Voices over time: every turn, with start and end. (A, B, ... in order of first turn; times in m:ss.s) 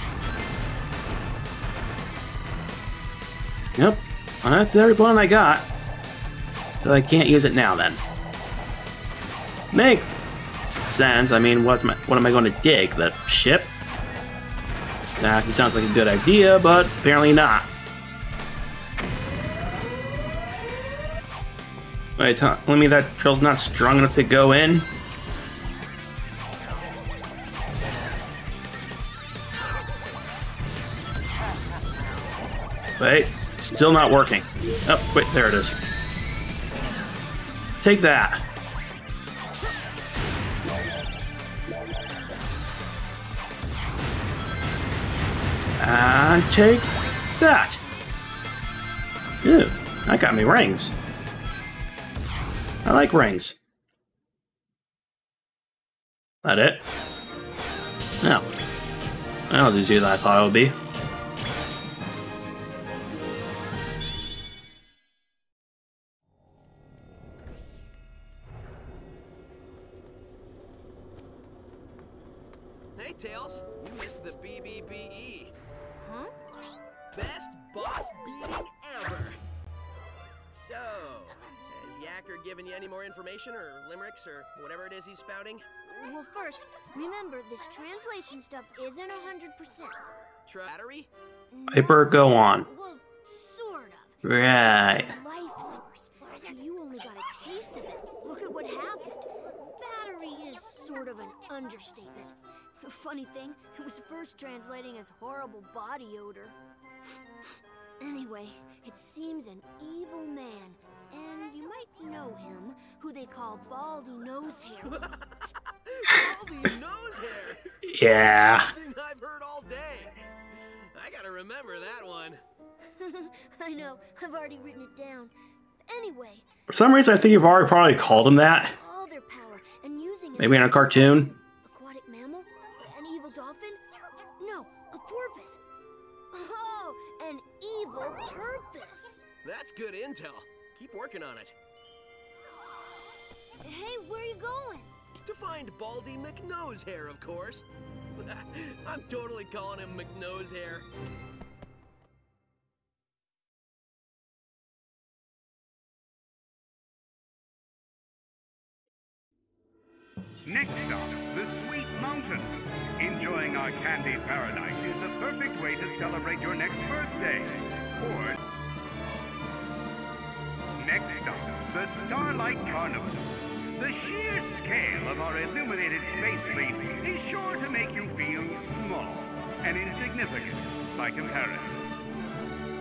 0:03.8-0:05.7 A
0:06.8-0:08.0 A
0:09.7-0:10.1 A
0:10.8-0:13.7 A
0:15.2-0:17.7 A
0:22.2-0:24.9 A
0:33.0-0:35.8 A
0:37.8-0:38.4 A
0:45.8-0:47.8 A
0:49.4-0:51.0 A
0:52.8-0:53.6 A
0:56.4-0:56.9 A
0:59.5-1:00.7 A
1:13.0-1:15.5 B
1:16.0-1:16.3 C
1:17.1-1:19.4 B
1:20.5-1:25.7 B
1:25.9-1:30.0 C
1:30.4-1:31.1 B
1:31.5-1:46.6 C
1:31.7-1:32.7 A
1:34.2-1:35.1 A
1:48.0-1:55.1 C
1:55.9-2:00.2 B
1:57.8-1:58.7 A
2:00.9-2:02.4 B
2:03.0-2:05.3 C
2:05.8-2:06.5 C
2:06.7-2:08.7 A
2:08.7-2:15.6 C
2:10.4-2:11.3 A
2:16.3-2:19.2 C
2:19.4-2:21.5 B
2:23.6-2:24.9 C
2:25.2-2:27.7 B
2:28.2-2:30.9 B
2:40.4-2:48.4 D
2:50.8-3:01.8 D